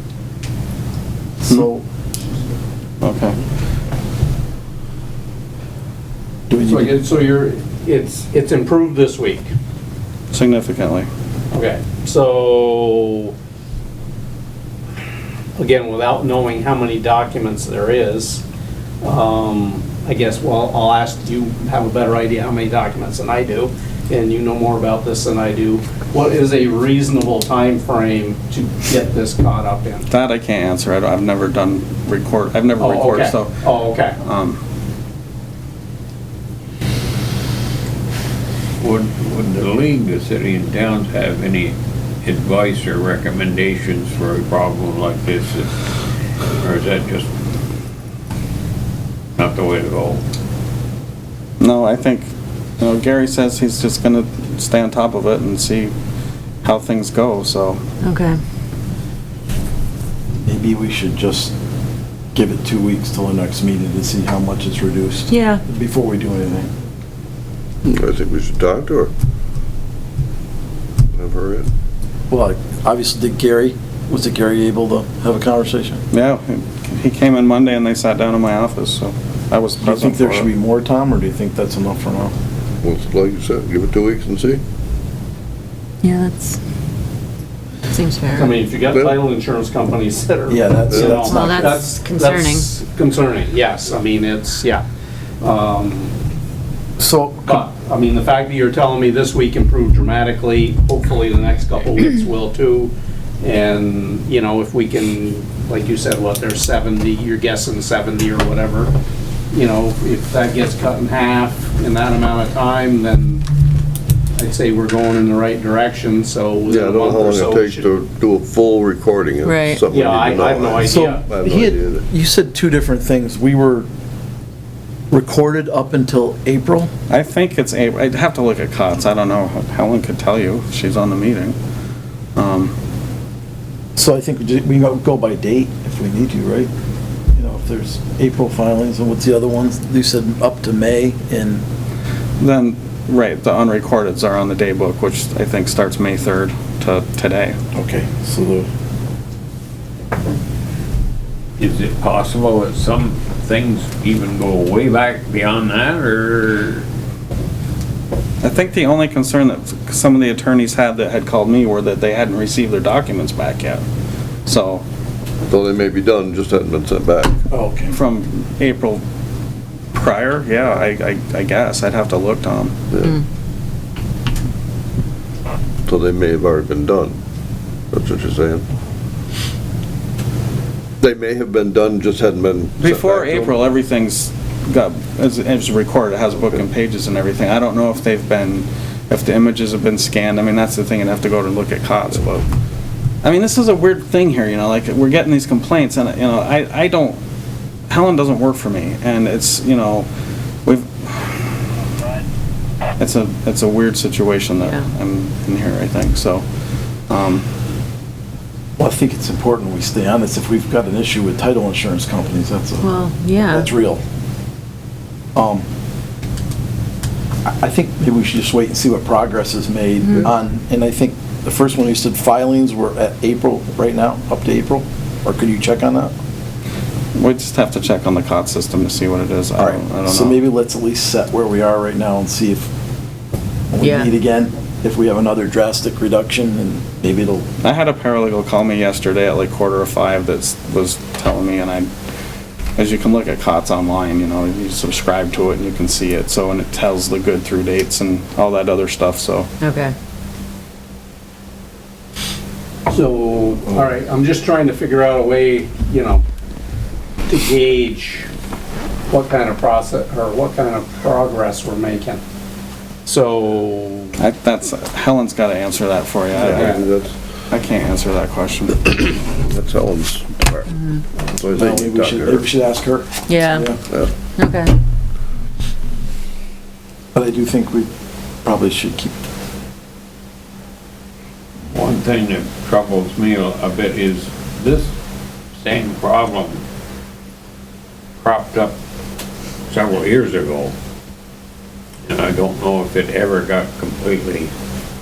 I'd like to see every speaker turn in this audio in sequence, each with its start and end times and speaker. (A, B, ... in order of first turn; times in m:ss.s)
0:01.4-0:01.8 A
0:03.0-0:03.4 B
0:06.5-0:07.0 A
0:06.7-0:09.5 C
0:10.3-0:11.1 B
0:11.5-0:13.3 C
0:15.6-0:18.4 C
0:19.0-0:30.1 C
0:30.1-0:33.6 B
0:32.8-0:34.2 C
0:34.2-0:34.6 B
0:38.8-0:45.7 D
0:46.6-0:47.3 D
0:49.4-0:50.2 D
0:51.6-0:55.9 B
0:56.6-0:57.8 B
0:58.0-0:58.4 E
1:00.4-1:01.5 A
1:02.3-1:06.7 A
1:05.3-1:05.6 E
1:07.8-1:09.1 F
1:11.1-1:11.7 F
1:12.3-1:16.0 A
1:16.1-1:20.4 B
1:19.8-1:22.3 A
1:22.8-1:24.6 F
1:26.0-1:26.6 E
1:27.9-1:28.6 E
1:28.3-1:34.8 C
1:28.9-1:29.2 F
1:30.5-1:31.9 A
1:31.1-1:32.6 E
1:35.4-1:36.1 C
1:37.0-1:37.6 A
1:37.5-1:48.9 C
1:49.5-1:53.4 C
1:54.4-1:57.9 C
1:56.7-2:02.0 F
1:59.4-1:59.9 E
1:59.9-2:01.2 C
2:00.8-2:03.8 A
2:05.1-2:06.9 A
2:07.1-2:11.6 B
2:12.4-2:12.7 B
2:14.0-2:16.7 A
2:17.3-2:21.6 A
2:22.4-2:27.6 B
2:27.7-2:28.7 A
2:31.6-2:36.8 D
2:38.4-2:43.8 B
2:44.4-2:44.8 B
2:45.5-2:47.4 F
2:47.5-2:47.9 A
2:47.9-2:49.0 B
2:49.9-2:52.7 B
2:52.9-2:53.2 F
2:55.9-2:57.2 F
2:57.9-2:58.6 F
3:01.0-3:03.6 F
3:02.8-3:12.4 B
3:13.2-3:17.2 B
3:17.9-3:20.1 B
3:20.6-3:21.6 B
3:23.0-3:26.4 B
3:24.6-3:24.8 E
3:27.1-3:27.4 B
3:28.8-3:34.0 A
3:32.8-3:33.7 E
3:35.3-3:35.6 A
3:37.4-3:46.1 A
3:47.1-3:50.4 B
3:49.6-3:52.7 A
3:53.7-3:57.4 A
3:53.8-3:54.1 E
3:57.6-4:01.9 B
4:02.8-4:09.5 B
4:09.6-4:09.9 E
4:12.9-4:16.2 C
4:17.3-4:18.3 C
4:19.1-4:22.2 C
4:23.0-4:24.2 C
4:24.2-4:26.8 B
4:26.3-4:27.1 F
4:27.5-4:28.9 B
4:29.3-4:32.5 F
4:31.5-4:33.8 A
4:33.3-4:33.7 E
4:34.4-4:34.7 E
4:37.1-4:37.9 A
4:38.4-4:39.1 A
4:41.7-4:44.9 D
4:45.6-4:46.6 D
4:48.2-4:48.7 D
4:49.7-4:50.7 D
4:52.0-4:54.5 D